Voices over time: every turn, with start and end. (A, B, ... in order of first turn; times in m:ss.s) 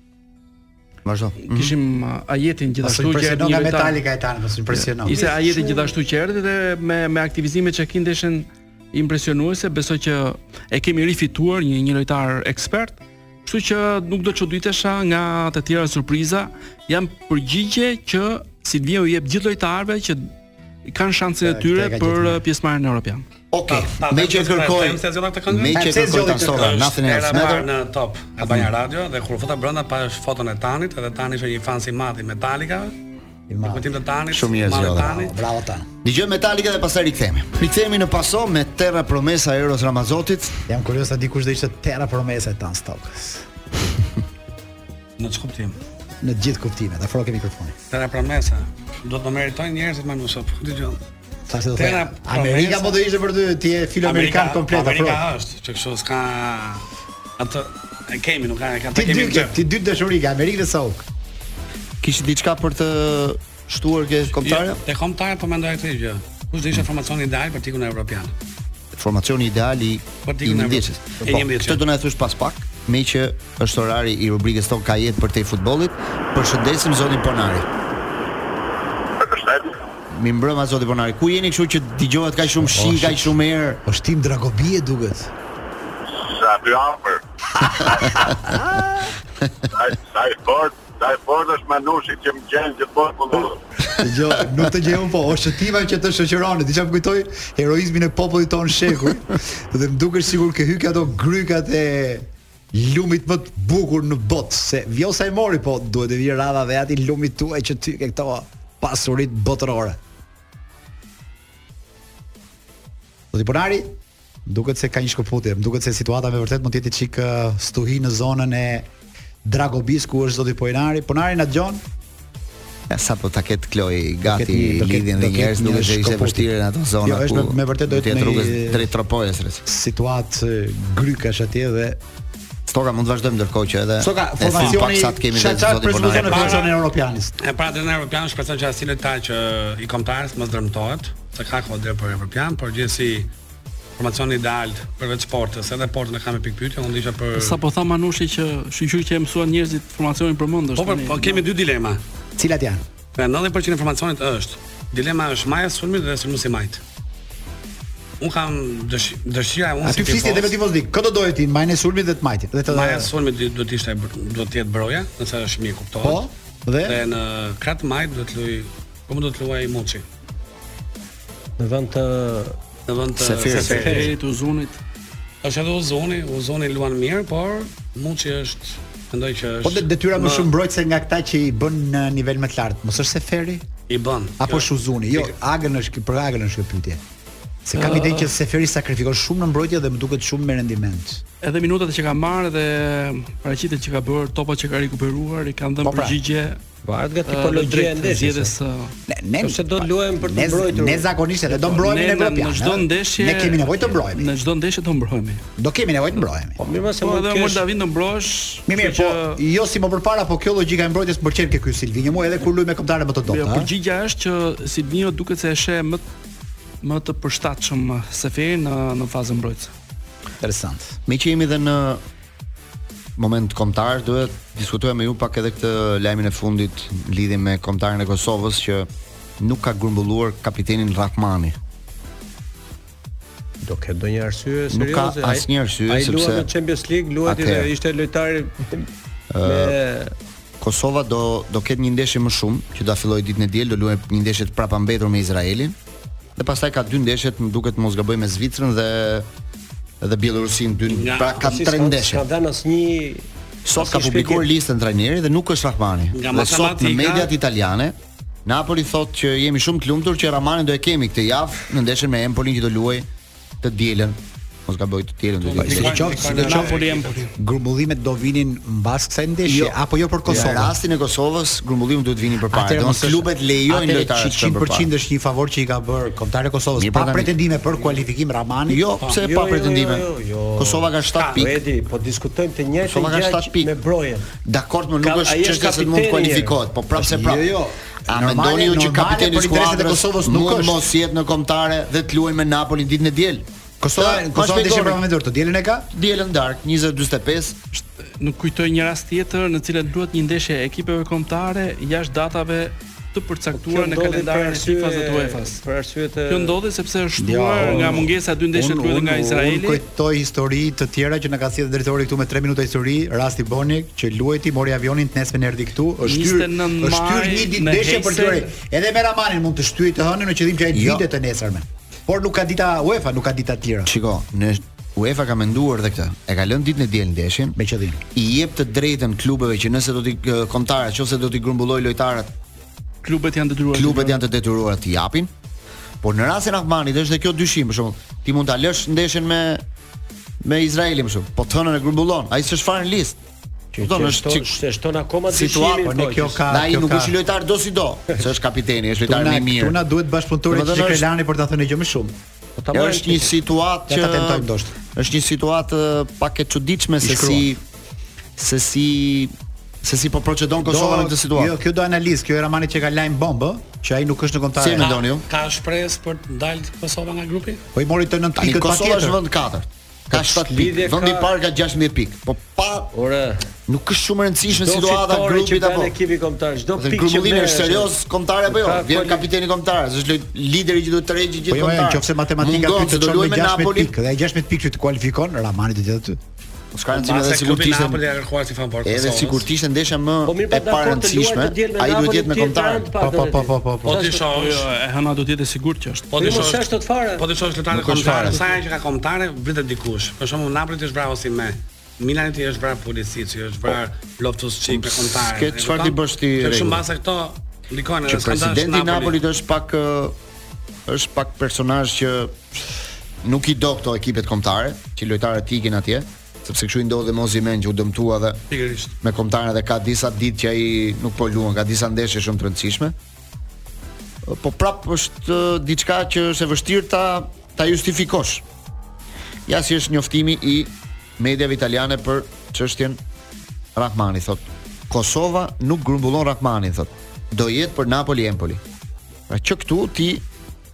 0:01.0-0:01.8 A
0:01.4-0:04.0 B
0:02.8-0:05.6 C
0:04.7-0:20.3 B
0:20.9-0:23.2 B
0:21.4-0:22.4 C
0:23.5-0:27.7 A
0:23.7-0:32.9 D
0:25.7-0:26.7 C
0:28.4-0:28.7 A
0:33.5-0:33.9 C
0:33.6-0:35.3 D
0:34.3-0:35.3 A
0:34.9-0:35.9 C
0:36.0-0:40.6 A
0:40.7-0:43.4 C
0:45.2-0:45.8 D
0:46.2-0:47.8 C
0:47.9-0:51.0 D
0:51.5-0:55.2 C
0:51.8-0:53.0 D
0:54.0-0:56.8 D
0:57.4-0:59.6 D
0:59.0-1:01.1 C
1:02.0-1:04.8 A
1:04.4-1:08.3 D
1:09.0-1:17.7 A
1:10.3-1:11.8 D
1:19.2-1:19.8 E
1:20.1-1:23.8 A
1:22.5-1:25.3 C
1:26.2-1:27.2 E
1:27.6-1:27.9 C
1:27.8-1:28.3 E
1:29.8-1:33.6 E
1:34.0-1:50.0 C
1:53.3-1:53.9 C
1:54.5-1:58.9 C
1:59.4-2:01.8 C
2:02.9-2:09.6 A
2:04.3-2:06.5 C
2:07.0-2:08.9 C
2:09.7-2:12.0 C
2:12.7-2:16.6 A
2:14.0-2:17.3 C
2:14.6-2:14.8 D
2:16.1-2:16.8 D
2:17.4-2:23.3 D
2:24.0-2:27.6 D
2:27.4-2:31.4 B
2:30.8-2:32.0 D
2:32.4-2:32.8 C
2:33.2-2:36.8 D
2:38.2-2:40.6 D
2:39.8-2:43.1 C
2:42.7-2:46.2 D
2:46.0-2:47.0 C
2:46.8-2:50.0 D
2:51.6-2:52.6 F
2:52.9-2:54.1 D
2:53.2-2:53.9 A
2:53.5-2:54.1 F
2:53.7-2:54.8 B
2:55.4-3:00.5 D
2:59.6-3:03.6 C
3:03.9-3:05.3 D
3:04.4-3:07.0 C
3:07.7-3:11.2 C
3:07.8-3:08.3 B
3:11.4-3:16.6 B
3:15.8-3:16.2 C
3:16.8-3:18.6 F
3:17.3-3:18.9 B
3:19.1-3:24.4 C
3:19.4-3:21.1 F
3:21.5-3:25.4 B
3:25.6-3:26.6 C
3:26.6-3:27.6 F
3:27.0-3:29.4 B
3:28.7-3:33.7 C
3:33.3-3:36.0 B
3:36.8-3:39.7 B
3:40.4-3:41.0 C
3:41.1-3:42.0 A
3:43.2-3:48.9 A
3:49.4-3:51.6 A
3:53.6-3:58.9 F
3:54.7-3:56.5 A
3:57.3-3:57.7 A
3:59.3-3:59.8 A
3:59.4-4:00.1 F
4:00.6-4:05.8 A
4:06.4-4:09.3 A
4:10.0-4:12.2 A
4:10.9-4:11.5 D
4:11.4-4:14.4 F
4:13.6-4:23.1 A
4:16.1-4:17.3 D
4:23.6-4:26.2 A
4:25.4-4:27.2 D
4:25.6-4:30.8 C
4:26.3-4:27.2 B
4:29.4-4:34.9 A
4:32.5-4:38.9 C
4:36.8-4:37.4 A
4:38.7-4:40.0 A
4:39.2-4:44.3 F
4:40.6-4:41.6 A
4:41.2-4:41.5 D
4:42.8-4:43.7 A
4:44.4-4:47.5 A
4:45.0-4:46.6 F
4:47.0-4:50.8 C
4:48.1-4:55.0 A
4:53.8-4:55.9 C
4:55.9-4:57.6 A
4:57.7-5:05.6 B
5:03.5-5:06.6 F
5:06.3-5:09.8 B
5:07.2-5:23.9 C
5:16.0-5:18.5 B
5:20.7-5:21.1 A
5:23.9-5:27.6 A
5:27.6-5:28.0 C
5:28.2-5:32.3 A
5:33.0-5:34.2 B
5:33.7-5:35.3 A
5:36.0-5:39.6 A
5:40.4-5:43.2 A
5:43.8-5:46.4 F
5:43.8-5:44.5 A
5:45.3-5:45.9 A
5:45.8-5:47.1 C
5:46.5-5:49.8 A
5:49.0-5:52.2 C
5:50.5-5:51.1 A
5:52.6-5:53.4 F
5:52.7-5:57.6 A
5:53.9-5:54.7 C
5:57.0-5:57.5 C
5:58.4-6:01.5 A
6:00.6-6:04.9 C
6:04.6-6:05.3 A
6:04.8-6:07.6 D
6:07.8-6:09.2 C
6:08.4-6:12.9 A
6:10.2-6:11.3 F
6:12.9-6:13.5 F
6:13.7-6:16.0 A
6:14.5-6:17.9 F
6:16.8-6:23.9 A
6:18.5-6:19.3 F
6:21.5-6:26.2 C
6:26.7-6:28.0 A
6:26.9-6:29.5 D
6:28.8-6:32.9 A
6:30.3-6:34.2 F
6:33.0-6:34.0 C
6:33.8-6:34.7 D
6:34.3-6:36.2 B
6:36.1-6:49.2 D
6:36.2-6:37.3 F
6:37.7-6:38.4 A
6:44.7-6:46.8 A
6:48.1-6:50.2 A
6:50.9-6:52.4 A
6:53.2-6:58.4 A
6:58.5-6:58.9 D
6:59.0-7:03.0 A
7:04.2-7:08.4 A
7:09.5-7:13.0 A
7:13.8-7:18.6 A
7:19.3-7:20.2 A